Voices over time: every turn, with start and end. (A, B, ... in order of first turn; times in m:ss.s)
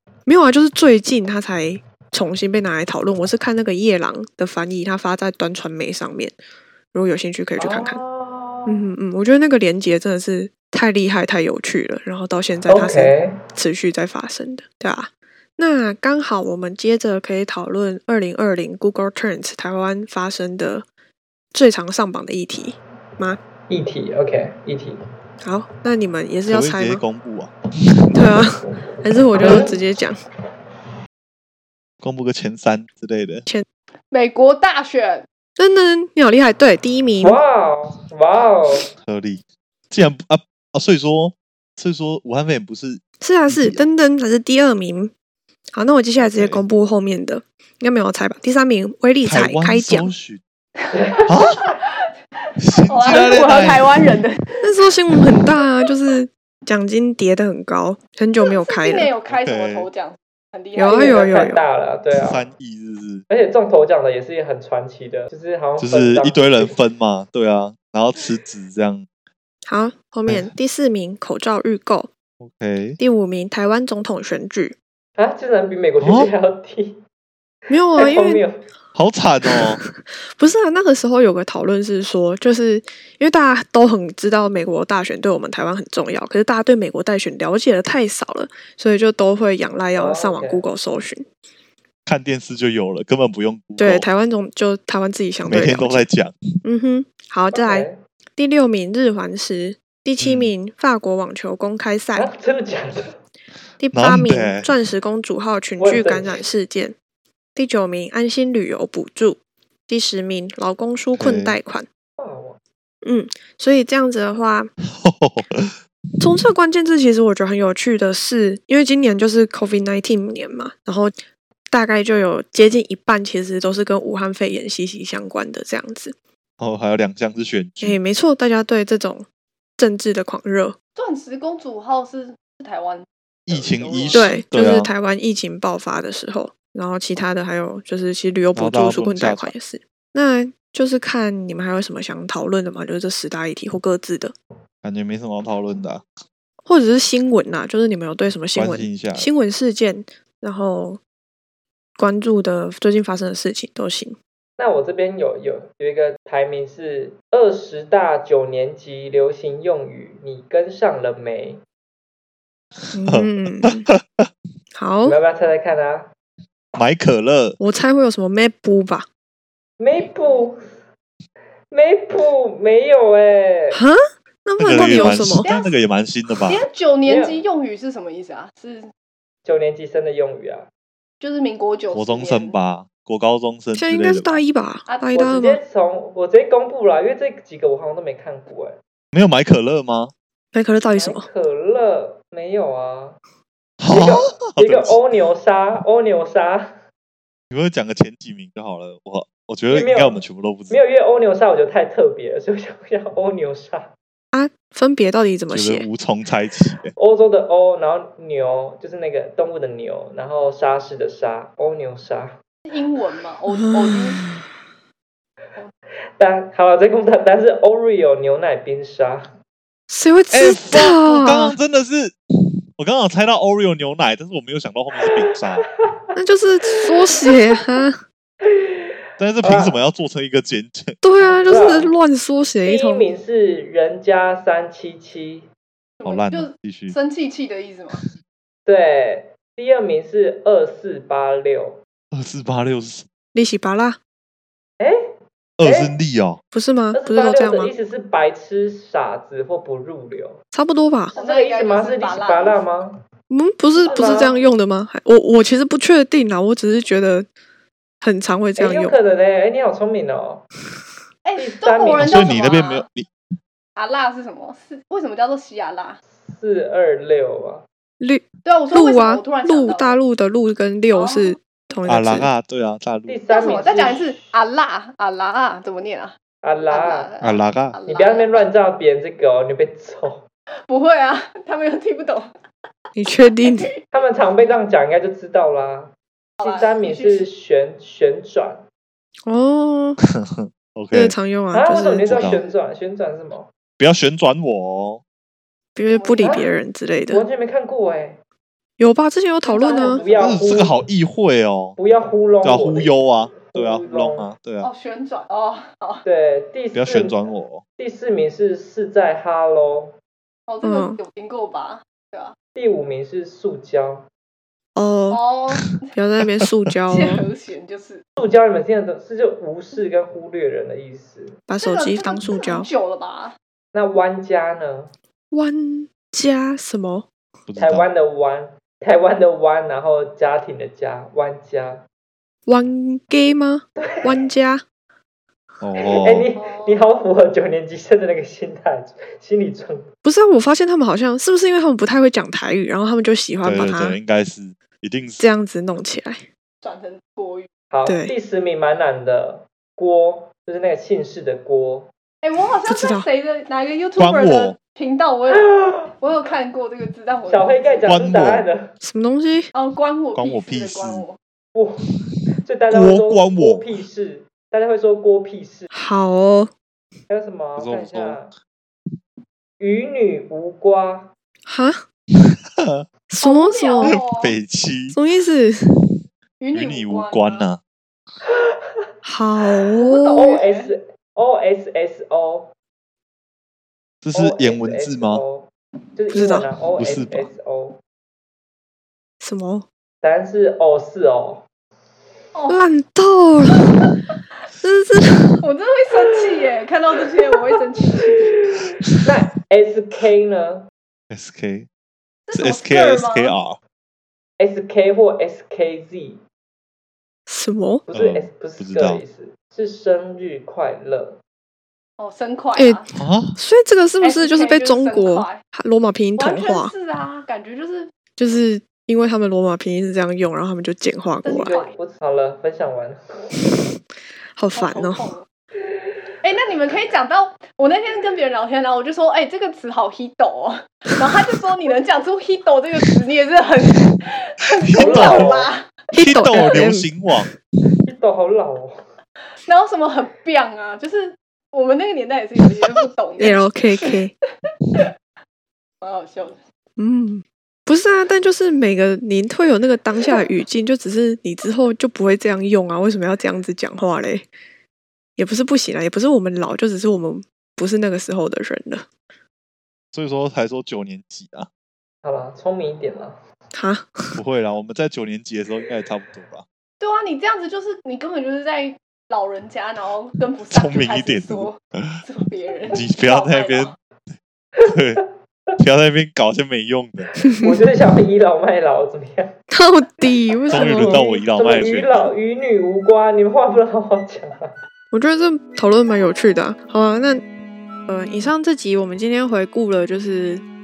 0:00.3-0:06.4 A
0:06.9-0:08.0 A
0:07.6-0:08.8 B
0:08.7-0:20.9 A
0:12.7-0:13.3 B
0:21.5-0:23.4 A
0:23.7-0:25.0 B
0:25.4-0:27.0 A
0:26.5-0:27.5 C
0:28.1-0:30.2 A
0:28.6-0:29.8 B
0:32.0-0:33.5 C
0:34.1-0:35.3 D
0:35.6-0:37.4 A
0:37.2-0:38.9 B
0:39.0-0:43.8 C
0:43.2-0:45.1 A
0:45.7-0:50.1 A
0:46.2-0:46.6 C
0:49.2-0:50.4 C
0:50.9-0:51.3 B
0:51.3-0:51.7 C
0:51.5-0:51.9 D
0:52.6-0:54.1 C
0:52.9-0:54.6 D
0:54.6-0:59.1 A
0:58.4-1:01.3 D
0:59.3-0:59.9 C
1:00.8-1:01.6 A
1:00.9-1:02.4 B
1:02.1-1:03.2 C
1:03.3-1:06.7 B
1:05.8-1:09.1 C
1:09.7-1:12.1 A
1:12.4-1:13.0 C
1:13.0-1:14.8 A
1:15.2-1:17.0 B
1:16.0-1:16.3 C
1:17.7-1:18.4 A
1:18.0-1:18.6 B
1:19.0-1:19.8 C
1:19.5-1:31.3 A
1:30.0-1:30.6 B
1:32.1-1:34.1 C
1:33.8-1:36.0 A
1:35.5-1:36.4 C
1:36.6-1:42.3 A
1:37.5-1:38.0 B
1:40.2-1:40.5 C
1:42.2-1:43.2 B
1:43.8-1:47.0 A
1:44.0-1:44.7 C
1:45.8-1:46.4 B
1:47.6-1:51.9 A
1:51.2-1:51.6 C
1:52.2-1:52.6 B
1:53.0-1:54.7 A
1:54.9-1:55.8 C
1:56.2-2:01.2 A
2:01.7-2:06.2 A
2:06.6-2:08.0 C
2:07.8-2:09.3 A
2:09.8-2:10.8 A
2:11.0-2:14.4 D
2:13.5-2:14.9 C
2:14.1-2:24.3 A
2:18.6-2:19.5 C
2:24.8-2:26.0 C
2:26.7-2:31.0 A
2:28.5-2:29.3 C
2:32.0-2:34.2 A
2:34.6-2:41.6 B
2:42.9-2:44.3 C
2:42.9-2:43.9 A
2:44.8-2:45.2 A
2:45.0-2:46.1 B
2:46.8-2:47.6 C
2:47.6-2:49.1 A
2:49.8-2:50.7 B
2:50.0-2:50.4 D
2:51.7-2:53.8 B
2:53.7-2:55.5 A
2:54.6-2:56.6 C
2:55.4-2:55.8 D
2:56.5-2:58.9 D
2:57.1-2:57.4 B
2:59.4-3:00.7 B
3:01.2-3:02.6 D
3:01.9-3:04.4 C
3:03.7-3:05.6 A
3:05.2-3:08.8 B
3:09.1-3:10.1 C
3:10.5-3:11.3 A
3:10.9-3:13.2 B
3:13.8-3:15.0 C
3:13.9-3:16.7 B
3:17.5-3:20.8 C
3:19.7-3:23.9 B
3:24.3-3:25.9 A
3:25.5-3:26.9 C
3:27.0-3:32.4 B
3:32.7-3:34.2 D
3:33.5-3:34.4 A
3:36.2-3:39.3 B
3:39.9-3:41.6 A
3:40.3-3:42.2 C
3:42.8-3:45.6 C
3:45.0-3:46.0 B
3:46.2-3:48.0 A
3:46.9-3:47.4 B
3:48.4-3:49.8 B
3:49.2-3:51.0 C
3:51.0-3:53.1 A
3:51.3-3:51.9 B
3:52.6-3:55.5 B
3:56.0-3:58.0 D
3:56.0-3:57.0 C
3:58.7-4:01.8 B
4:02.1-4:03.1 C
4:03.3-4:04.0 A
4:04.8-4:06.0 B
4:05.6-4:06.4 C
4:06.5-4:07.7 A
4:07.0-4:10.4 B
4:10.5-4:11.1 A
4:11.1-4:12.6 D
4:11.1-4:13.0 B
4:13.3-4:17.3 A
4:13.8-4:14.5 D
4:13.8-4:14.4 B
4:18.0-4:19.0 A
4:18.6-4:20.4 B
4:21.2-4:22.8 D
4:21.4-4:22.4 B
4:22.0-4:23.1 C
4:23.8-4:26.0 D
4:26.1-4:27.6 B
4:28.0-4:32.3 A
4:28.4-4:30.0 D
4:30.9-4:31.4 D
4:31.9-4:33.2 C
4:33.1-4:34.4 B
4:33.3-4:36.2 D
4:36.4-4:37.1 B
4:36.7-4:38.4 D
4:37.2-4:37.8 C
4:37.9-4:40.3 B
4:40.7-4:42.3 D
4:43.0-4:43.7 A
4:43.4-4:43.7 D
4:43.9-4:48.7 B
4:46.4-4:47.3 D
4:49.3-4:50.0 A
4:50.1-4:51.2 C
4:50.9-4:52.2 A
4:51.5-4:53.5 B
4:52.0-4:52.4 C
4:52.3-4:52.6 D
4:53.8-4:55.0 C
4:55.8-4:57.2 A
4:55.9-4:56.5 D
4:56.2-4:56.5 B
4:57.1-4:58.2 B
4:58.8-5:00.0 A
4:59.4-5:00.5 D
4:59.7-5:00.8 B
5:00.2-5:01.8 C
5:01.8-5:04.3 B
5:02.4-5:04.7 C
5:04.6-5:06.0 D
5:06.0-5:07.2 B
5:06.7-5:07.6 C
5:07.8-5:10.0 B
5:10.5-5:12.4 D
5:10.6-5:11.0 A
5:12.6-5:14.1 B
5:14.8-5:15.2 A
5:15.1-5:15.9 D
5:16.0-5:17.2 A
5:16.9-5:18.0 D
5:18.2-5:21.4 B
5:21.5-5:22.7 A
5:21.6-5:23.4 D
5:23.7-5:24.9 B
5:25.3-5:27.1 A
5:27.5-5:27.9 C
5:27.6-5:31.8 B
5:32.5-5:34.6 A
5:33.8-5:34.2 B
5:35.6-5:36.3 C
5:35.8-5:39.9 B
5:36.3-5:36.8 D
5:40.0-5:44.0 A
5:43.4-5:45.3 C
5:45.2-5:46.2 A
5:46.6-5:47.5 D
5:47.7-5:51.9 B
5:47.8-5:48.1 A
5:52.2-5:57.9 D
5:52.7-5:53.0 A
5:54.0-5:54.6 C
5:55.3-5:55.9 B
5:57.3-5:58.7 B
5:57.9-5:58.5 C
5:58.8-5:59.5 A
5:59.5-6:01.2 D
6:00.2-6:01.1 C
6:01.5-6:01.9 B
6:02.4-6:05.7 B
6:02.7-6:03.6 C
6:05.7-6:06.5 A
6:07.1-6:08.3 B
6:07.6-6:08.2 C
6:09.6-6:11.1 B
6:11.5-6:11.8 A
6:12.2-6:12.8 C
6:13.1-6:14.0 A
6:13.2-6:14.4 D
6:13.8-6:15.0 C
6:14.9-6:15.7 A
6:16.4-6:17.5 D
6:16.5-6:17.6 C
6:18.2-6:18.9 B
6:19.0-6:20.1 A
6:19.8-6:20.7 D
6:20.1-6:22.5 B
6:24.0-6:25.2 C
6:24.1-6:27.8 B
6:26.1-6:26.5 A
6:26.8-6:27.3 C
6:29.2-6:29.6 A
6:30.0-6:31.5 B
6:32.3-6:32.6 D
6:32.5-6:33.8 A
6:33.8-6:34.1 D
6:34.6-6:35.4 A
6:35.4-6:38.3 D
6:38.1-6:40.7 B
6:41.1-6:41.7 C
6:42.3-6:43.4 D
6:42.4-6:43.6 C
6:44.4-6:46.2 B
6:47.3-6:47.8 A
6:47.9-6:51.2 B
6:47.9-6:49.0 C
6:52.0-6:52.9 D
6:52.6-6:52.8 A
6:52.9-6:53.4 C
6:53.4-6:56.7 A
6:54.0-6:55.4 D
6:56.2-6:57.9 D
6:58.2-7:01.5 A
7:01.2-7:01.7 D
7:01.3-7:03.3 B
7:04.4-7:05.0 A
7:04.5-7:05.3 D
7:06.2-7:15.7 D
7:14.7-7:15.3 C
7:14.8-7:15.5 B
7:15.9-7:16.9 A
7:15.9-7:17.3 C
7:17.9-7:18.9 B
7:19.4-7:23.9 D
7:23.2-7:24.1 A
7:25.8-7:26.4 D
7:26.8-7:34.3 A
7:35.2-7:38.9 A
7:39.9-7:41.5 C
7:42.0-7:43.2 B
7:43.5-7:44.2 A
7:44.2-7:46.4 C
7:46.8-7:53.8 D
7:50.5-7:52.0 C
7:52.7-7:53.7 C
7:54.6-7:55.5 B
7:54.7-7:55.0 C
7:55.6-7:57.2 C
7:57.4-7:59.4 B
7:59.5-8:01.0 A
8:00.1-8:04.5 B
8:00.5-8:02.1 C
8:04.9-8:07.2 A
8:07.9-8:10.4 A